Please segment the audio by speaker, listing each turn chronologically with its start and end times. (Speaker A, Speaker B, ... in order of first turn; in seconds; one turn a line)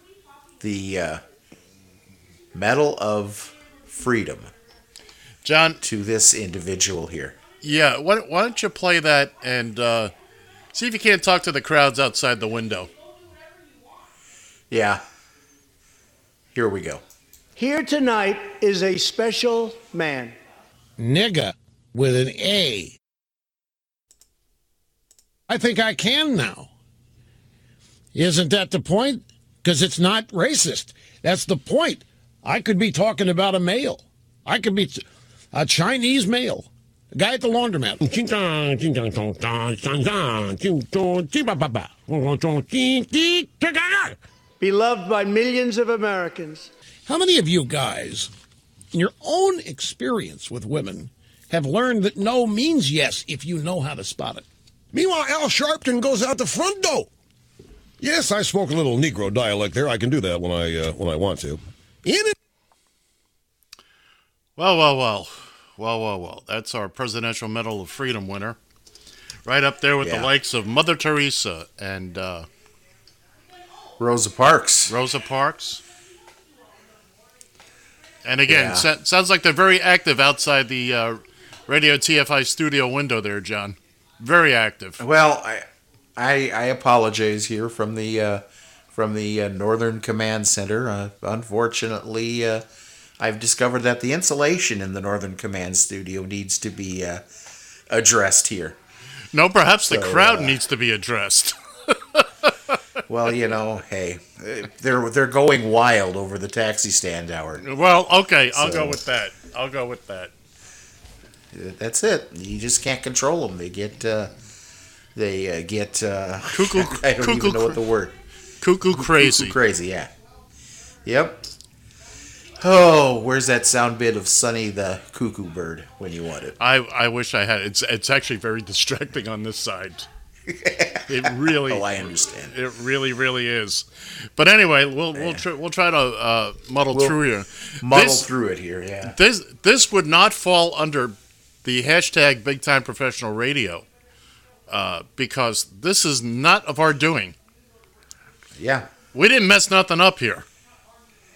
Speaker A: 0.6-1.2
Speaker A: 2.5-4.5
Speaker B: 5.4-5.8
Speaker A: 5.8-7.4
Speaker B: 7.6-10.1
Speaker B: 10.7-12.9
Speaker A: 14.7-15.0
Speaker A: 16.5-17.0
Speaker C: 17.6-20.4
Speaker D: 21.0-22.9
Speaker D: 25.5-26.7
Speaker D: 28.1-44.1
Speaker C: 44.6-46.7
Speaker D: 47.1-48.3
Speaker D: 48.9-54.5
Speaker E: 54.9-57.1
Speaker E: 58.0-62.2
Speaker B: 64.6-68.6
Speaker B: 69.4-72.5
Speaker A: 70.0-70.3
Speaker A: 74.0-74.9
Speaker B: 74.9-75.8
Speaker B: 78.2-85.0
Speaker A: 78.5-78.9
Speaker A: 85.0-92.6
Speaker A: 93.2-97.2
Speaker A: 97.9-98.8
Speaker B: 99.3-102.3
Speaker A: 99.9-100.6
Speaker A: 103.1-107.6
Speaker B: 107.6-110.3
Speaker A: 108.5-109.0
Speaker A: 111.5-114.3
Speaker A: 115.1-118.2
Speaker B: 116.5-117.8
Speaker B: 118.6-119.6
Speaker A: 118.9-120.1
Speaker A: 121.0-121.5
Speaker A: 122.6-126.6
Speaker B: 126.6-130.1
Speaker A: 130.5-132.5
Speaker B: 131.1-138.3
Speaker A: 135.1-135.4
Speaker A: 136.9-137.2
Speaker A: 137.8-139.2
Speaker B: 139.0-143.9
Speaker B: 144.7-147.4
Speaker A: 148.6-148.9
Speaker B: 149.1-150.5